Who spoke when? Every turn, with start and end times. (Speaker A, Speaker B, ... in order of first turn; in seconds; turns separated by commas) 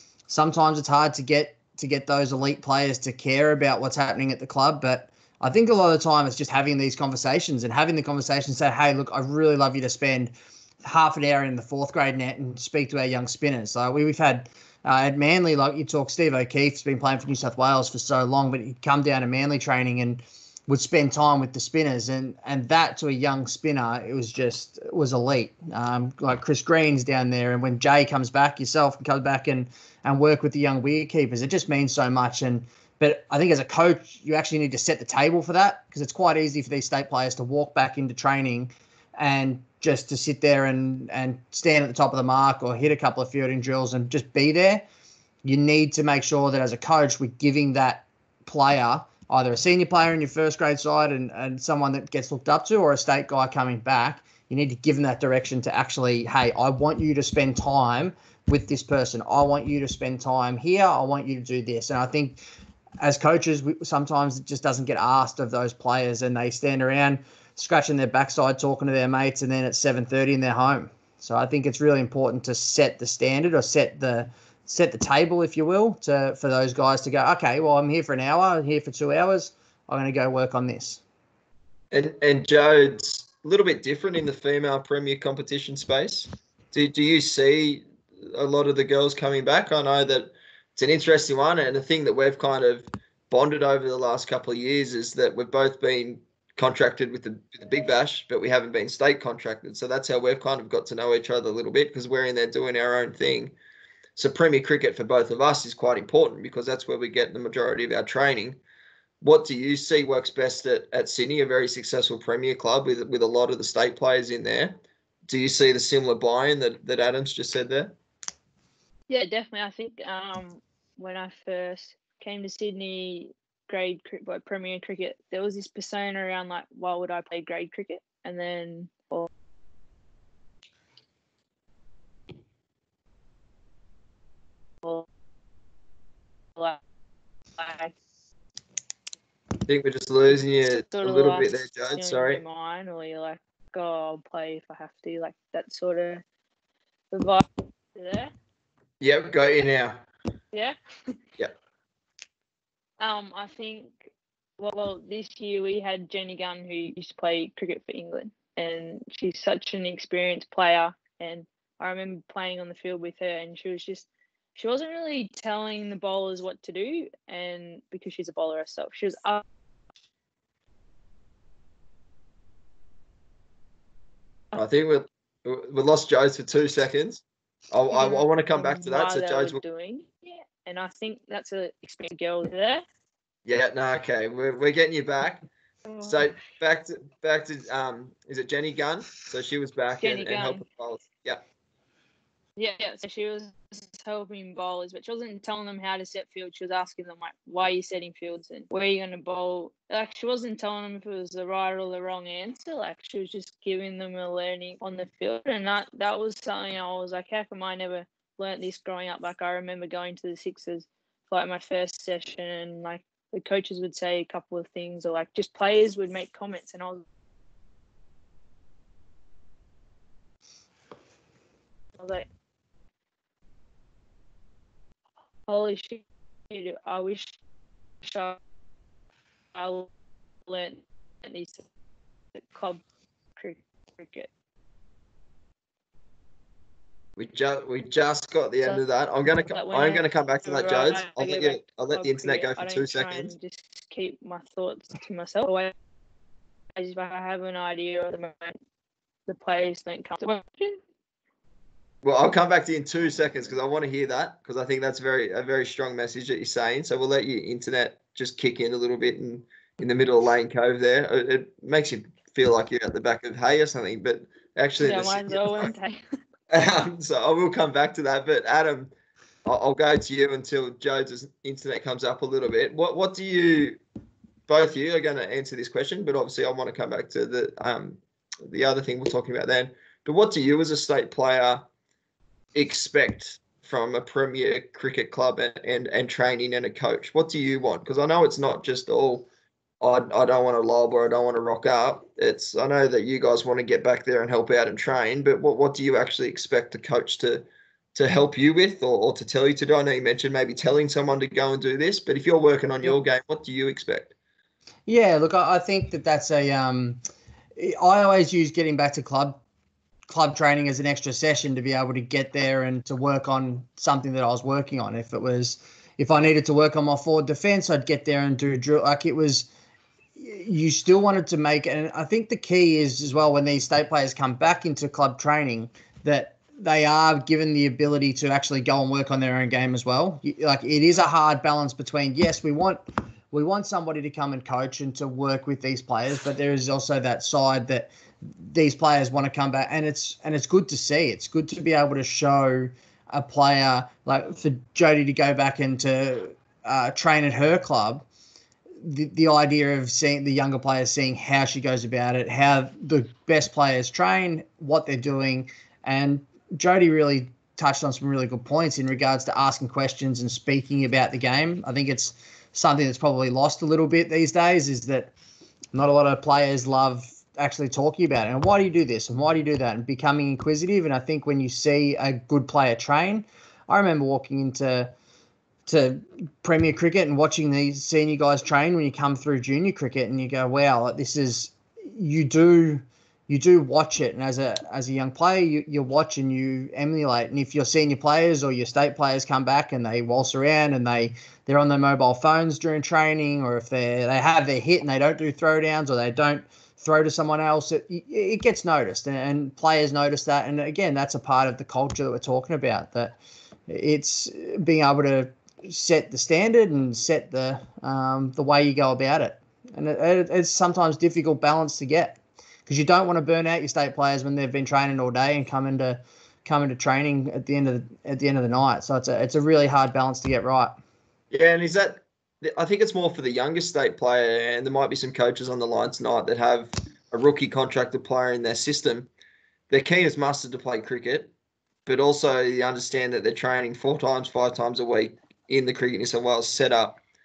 Speaker A: 0.3-44.8, Speaker A: 45.4-62.4, Speaker A: 63.0-81.0, Speaker B: 81.9-103.5, Speaker B: 104.2-108.6, Speaker B: 109.2-118.0, Speaker C: 119.1-129.3, Speaker C: 137.6-137.9, Speaker B: 139.7-142.4, Speaker C: 140.7-146.2, Speaker C: 147.1-148.3, Speaker B: 149.0-150.0, Speaker C: 153.0-169.4, Speaker B: 174.5-179.6, Speaker C: 177.9-182.8, Speaker B: 183.4-185.5, Speaker C: 185.9-186.3, Speaker B: 186.0-191.4, Speaker C: 190.0-190.6, Speaker C: 192.6-217.0, Speaker C: 222.0-222.2, Speaker C: 225.5-227.4, Speaker C: 228.0-228.4, Speaker C: 229.5-229.9, Speaker C: 230.5-231.6, Speaker C: 232.3-232.8, Speaker C: 233.4-234.3, Speaker B: 237.2-243.3, Speaker C: 239.4-245.7, Speaker C: 246.8-248.6, Speaker C: 249.3-250.8, Speaker B: 252.0-265.7, Speaker C: 264.8-266.0, Speaker B: 266.5-268.9, Speaker B: 269.4-273.8, Speaker B: 274.5-281.6, Speaker B: 282.5-289.3, Speaker B: 289.8-304.1, Speaker A: 304.9-307.0, Speaker A: 307.6-309.4, Speaker A: 310.1-319.5, Speaker A: 320.2-348.0, Speaker A: 348.8-365.1, Speaker A: 365.7-374.9, Speaker A: 375.6-403.1, Speaker A: 403.7-420.7, Speaker B: 421.3-429.1, Speaker B: 429.7-431.3, Speaker B: 431.9-437.0